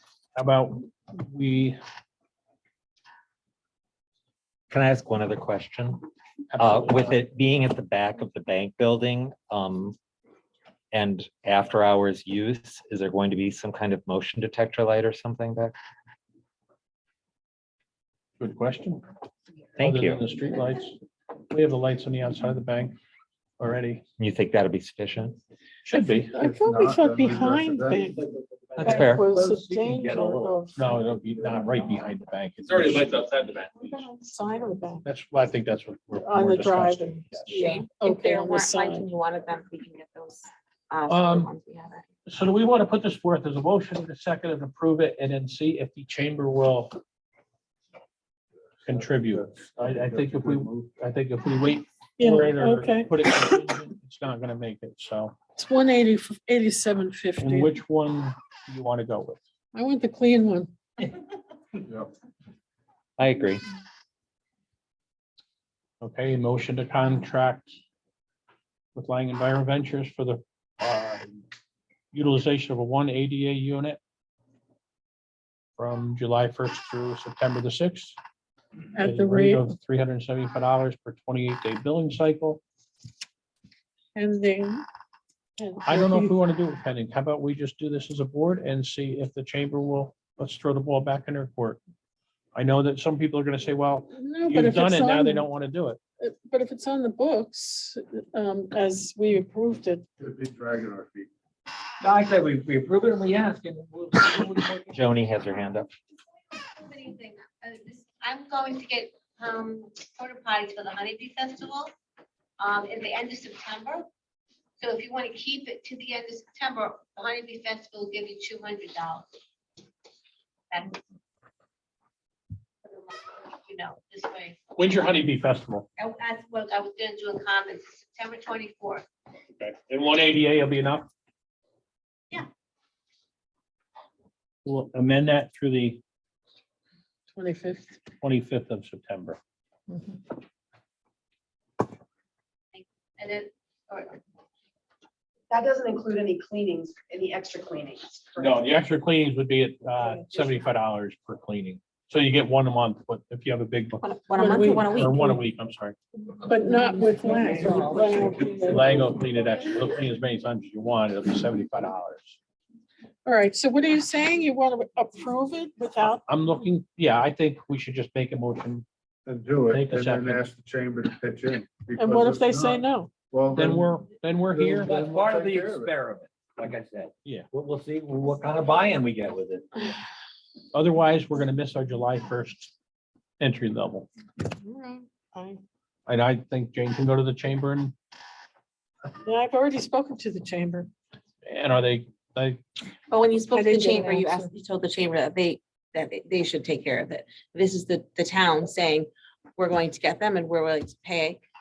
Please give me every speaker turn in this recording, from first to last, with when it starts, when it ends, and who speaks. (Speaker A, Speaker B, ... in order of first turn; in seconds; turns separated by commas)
Speaker A: 0.3-1.8, Speaker B: 4.7-6.0, Speaker A: 6.5-7.2, Speaker B: 6.6-9.9, Speaker B: 10.9-15.7, Speaker A: 18.4-19.0, Speaker B: 19.8-20.2, Speaker A: 19.8-20.9, Speaker A: 21.5-23.0, Speaker A: 23.6-24.0, Speaker B: 24.2-25.4, Speaker A: 25.8-26.4, Speaker C: 25.9-28.2, Speaker D: 26.4-28.0, Speaker E: 28.8-30.6, Speaker B: 28.8-29.3, Speaker C: 28.8-30.7, Speaker A: 30.7-33.1, Speaker E: 33.2-33.7, Speaker C: 33.8-35.0, Speaker A: 35.0-37.6, Speaker C: 36.2-39.1, Speaker F: 37.5-42.0, Speaker A: 41.1-41.5, Speaker A: 42.2-47.0, Speaker A: 48.8-55.3, Speaker D: 49.7-50.7, Speaker C: 52.2-53.8, Speaker C: 55.6-57.7, Speaker A: 57.4-59.4, Speaker C: 59.7-60.7, Speaker B: 63.2-63.6, Speaker A: 66.0-67.8, Speaker A: 68.9-71.4, Speaker A: 72.1-74.0, Speaker A: 75.8-78.2, Speaker C: 78.9-79.7, Speaker A: 79.0-82.6, Speaker C: 84.2-84.8, Speaker C: 85.6-86.3, Speaker A: 85.8-91.8, Speaker A: 92.5-96.0, Speaker C: 94.1-95.5, Speaker C: 96.2-100.0, Speaker D: 100.2-101.3, Speaker E: 102.0-104.9, Speaker B: 104.9-105.9, Speaker G: 106.8-111.9, Speaker G: 112.6-114.1, Speaker G: 114.8-119.2, Speaker G: 120.7-121.0, Speaker G: 122.8-124.6, Speaker A: 124.8-125.9, Speaker G: 126.0-129.1, Speaker A: 129.6-131.1, Speaker A: 134.6-136.0, Speaker C: 137.3-138.0, Speaker A: 138.2-139.4, Speaker C: 139.9-140.2, Speaker G: 142.7-144.2, Speaker H: 145.5-148.6, Speaker A: 148.4-154.1, Speaker F: 154.0-155.2, Speaker C: 154.3-155.4, Speaker A: 154.8-155.9, Speaker C: 156.3-158.9, Speaker E: 157.2-158.9, Speaker A: 158.7-162.4, Speaker C: 163.2-166.2, Speaker A: 166.3-168.8, Speaker D: 169.2-172.7, Speaker A: 169.7-170.4, Speaker C: 171.9-173.1, Speaker D: 173.3-173.9, Speaker A: 173.5-174.9, Speaker D: 174.5-175.9, Speaker E: 174.8-179.6, Speaker A: 180.7-182.7, Speaker A: 183.4-184.1, Speaker C: 184.4-185.6, Speaker A: 186.1-187.9, Speaker C: 189.2-190.9, Speaker A: 191.4-192.6, Speaker F: 193.1-201.4, Speaker C: 193.5-194.5